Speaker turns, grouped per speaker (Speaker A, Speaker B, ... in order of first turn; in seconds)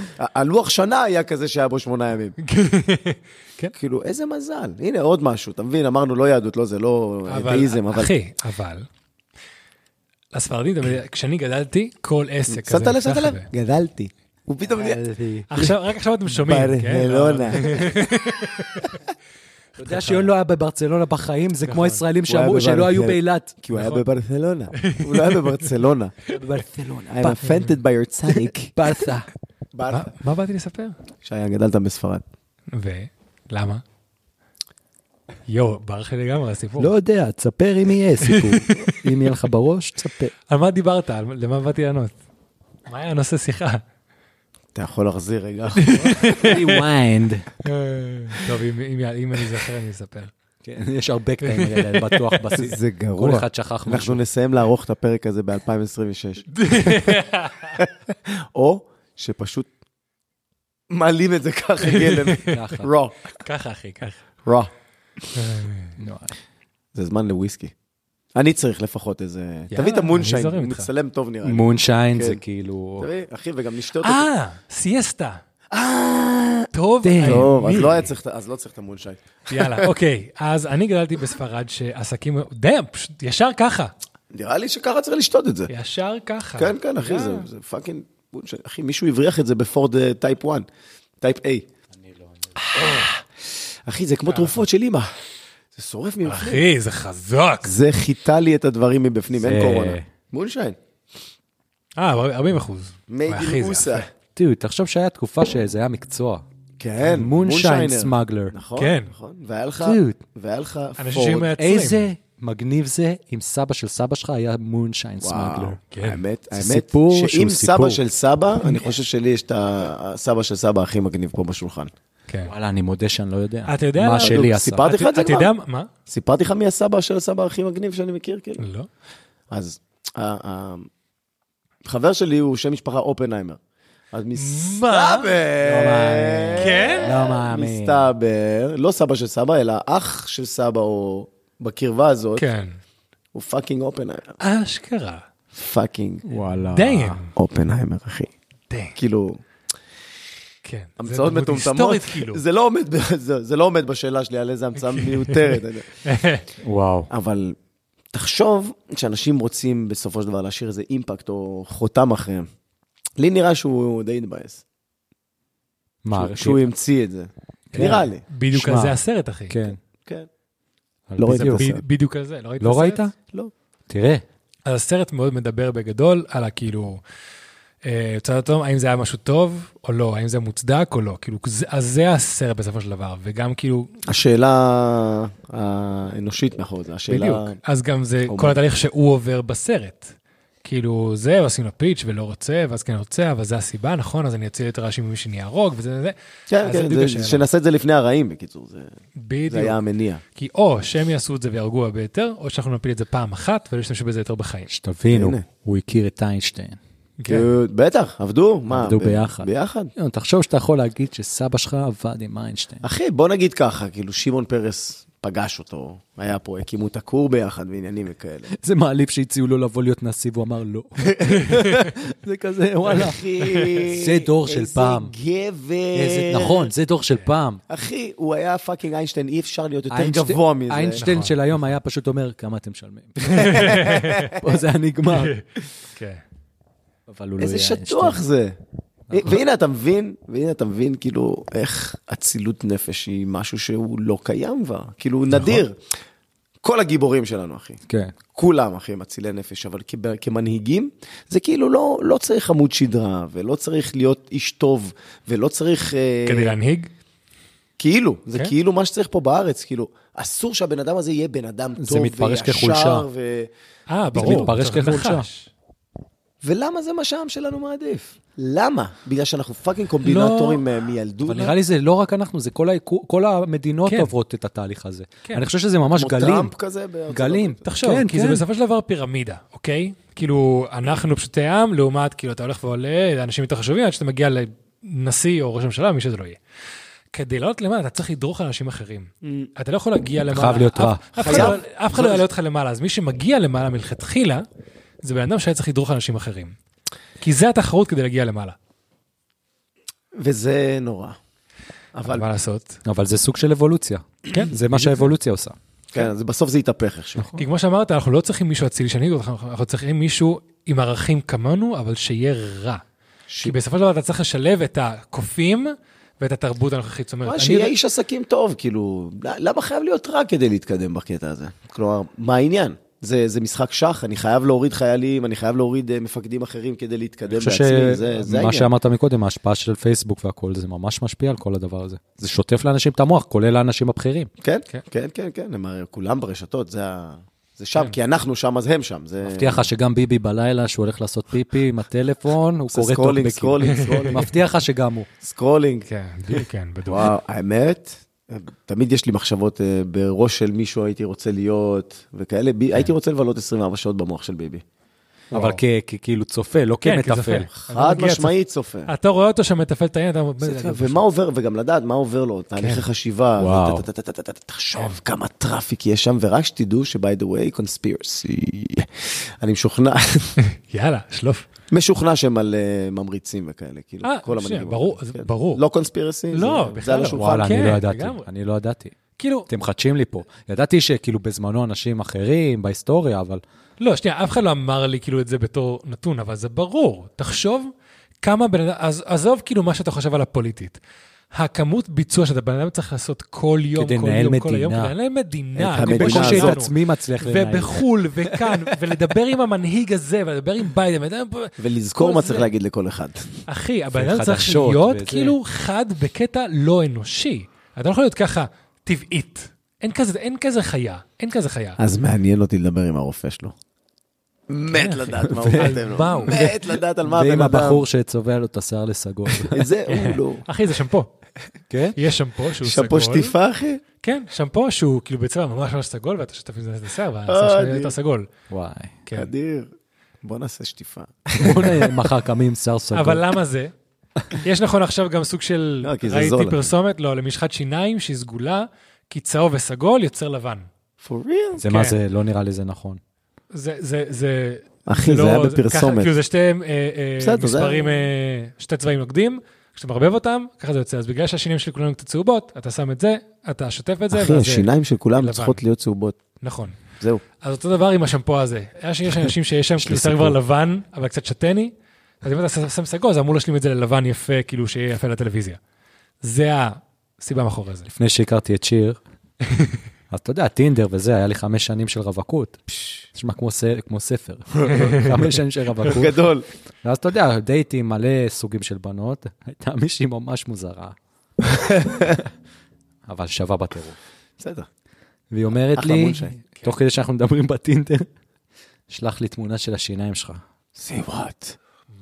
Speaker A: 0.2-2.4, 3.7-8.1, 12.5-15.0, 16.3-18.1, 22.2-26.2, 27.1-28.7, 29.7-30.1, 31.2-32.2, 44.8-46.4, 52.5-57.2, 57.8-59.7, 60.9-63.4, 64.4-64.7, 67.0-67.7, 68.3-72.4, 73.0-74.3, 75.7-76.7, 77.2-79.9, 84.3-85.7, 86.6-90.7, 91.2-91.7, 92.7-95.1, 95.7-96.7, 97.6-100.8, 103.1-104.1, 106.8-111.5, 115.2-121.9, 124.2-125.5, 126.1-128.6, 129.5-130.9, 131.8-133.6, 134.1-142.5, 143.3-144.3, 145.5-146.2, 147.3-148.3, 149.0-149.4, 151.0-156.0, 157.1-157.6, 158.1-162.5, 163.2-164.6, 166.1-168.2, 171.2-171.8, 184.1-187.6, 188.3-188.6, 196.5-198.9, 199.5-200.2, 205.1-205.4, 207.3-209.9, 212.8-218.5, 222.8-226.7, 227.7-231.1, 233.3-234.6, 237.4-238.6, 239.1-245.8, 246.6-247.8, 248.3-256.6, 257.8-263.5, 264.1-264.5, 266.4-271.6, 275.9-277.6, 289.2-289.5, 291.2-292.3, 300.2-301.2, 301.9-302.3, 305.9-307.3, 313.3-313.6, 317.2-328.7, 334.4-339.7, 342.7-344.3, 345.2-345.9, 346.9-354.6, 357.5-358.9, 360.4-370.4, 371.7-377.7, 395.6-396.7, 401.6-403.4, 411.8-413.6, 414.5-417.9, 419.4-420.4, 422.6-423.8, 427.3-427.9, 429.1-429.7, 430.2-432.1, 435.8-436.7, 441.0-441.6, 444.9-446.1, 447.2-448.0, 454.1-456.2, 475.8-476.5, 481.5-482.2, 484.4-484.7, 485.8-486.4, 490.8-491.6
Speaker B: 2.4-3.7, 7.3-8.9, 10.3-13.5, 15.5-19.0, 19.9-20.3, 21.6-22.0, 23.7-24.0, 24.8-25.7, 27.4-27.7, 29.9-31.0, 32.7-33.8, 35.5-36.9, 38.2-39.0, 40.5-42.2, 42.9-43.8, 45.8-46.8, 47.6-50.3, 51.4-52.5, 56.5-57.8, 61.8-62.6, 63.4-64.2, 65.3-66.0, 69.7-70.9, 74.0-75.4, 76.7-78.1, 79.5-83.9, 85.7-87.5, 94.3-94.6, 96.2-97.8, 102.0-104.1, 108.8-109.1, 111.0-112.1, 115.9-116.2, 118.6-118.9, 123.7-125.9, 128.6-128.9, 134.3-135.3, 136.6-137.1, 142.4-142.7, 144.4-145.2, 146.7-147.3, 148.7-149.0, 150.6-152.4, 154.8-156.5, 167.8-169.7, 171.3-173.1, 174.7-177.0, 177.8-183.9, 187.1-197.4, 199.2-199.8, 200.3-204.7, 207.2-207.5, 221.5-221.9, 223.4-223.8, 231.0-231.3, 233.3-234.3, 235.1-236.2, 245.3-245.6, 256.2-256.9, 263.9-265.5, 270.0-270.6, 273.9-274.1, 277.6-286.4, 287.1-294.4, 295.0-296.6, 297.2-298.6, 302.0-302.8, 304.3-305.1, 307.4-312.8, 313.4-317.7, 343.7-344.1, 345.9-347.1, 355.3-355.6, 356.8-358.3, 358.9-361.0, 362.6-362.8, 370.4-371.5, 374.0-375.6, 376.3-378.3, 379.2-379.5, 383.8-387.7, 388.2-390.8, 391.3-402.5, 403.5-411.8, 414.7-416.4, 419.9-421.1, 421.9-423.4, 424.0-428.3, 429.1-429.3, 432.9-433.7, 434.3-440.7, 441.7-442.0, 443.5-455.6, 456.4-456.8, 457.4-465.6, 466.2-467.9, 469.5-469.8, 474.7-475.1
Speaker C: 14.7-15.5, 19.8-23.6, 26.3-27.4, 28.3-29.3, 36.8-40.3, 46.2-47.5, 50.6-54.2, 62.5-62.9, 66.0-66.3, 71.4-73.1, 77.0-77.5, 99.4-100.1, 104.4-106.4, 107.0-108.5, 109.8-110.2, 111.6-115.8, 116.5-118.0, 122.5-124.8, 135.6-138.1, 146.3-147.2, 156.6-157.1, 166.0-166.6, 167.7-169.0, 169.5-169.8, 171.1-171.7, 172.6-173.1, 173.9-174.2, 204.7-206.8, 208.7-212.8, 218.5-223.2, 223.8-225.1, 225.9-227.6, 229.9-235.3, 237.1-238.2, 239.1-239.4, 247.9-248.2, 261.8-263.1, 264.2-265.3, 271.3-276.5, 277.1-278.4, 290.2-291.6, 302.9-305.6, 327.3-334.3, 339.2-345.1, 355.3-357.5, 363.4-363.9, 377.1-378.9, 379.5-383.4, 393.8-394.9, 395.8-398.7, 403.9-405.4, 415.2-419.7, 421.7-422.0, 428.5-429.0, 431.4-433.2, 441.6-443.0, 459.8-460.4, 467.9-469.0, 470.1-476.2, 476.8-481.0, 483.1-484.0, 485.3-488.1, 488.9-490.4